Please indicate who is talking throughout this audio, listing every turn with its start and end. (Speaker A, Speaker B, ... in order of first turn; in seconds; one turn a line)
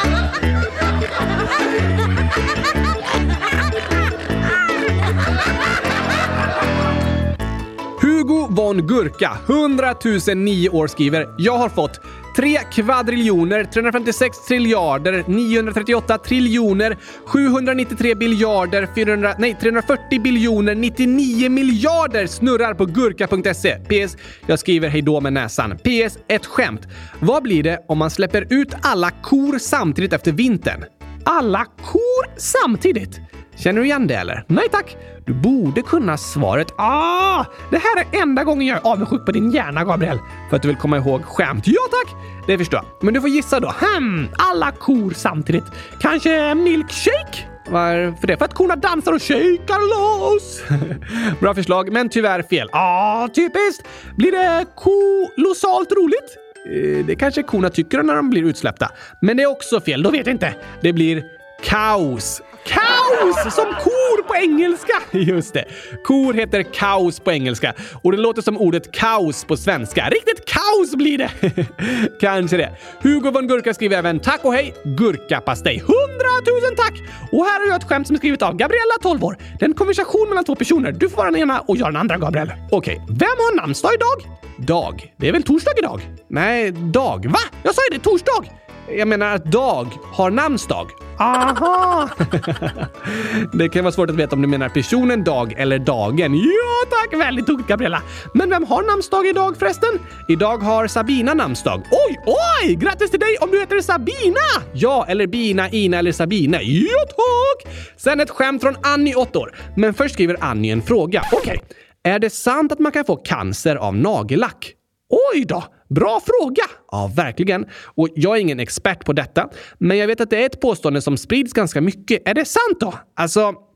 Speaker A: 8.0-123.6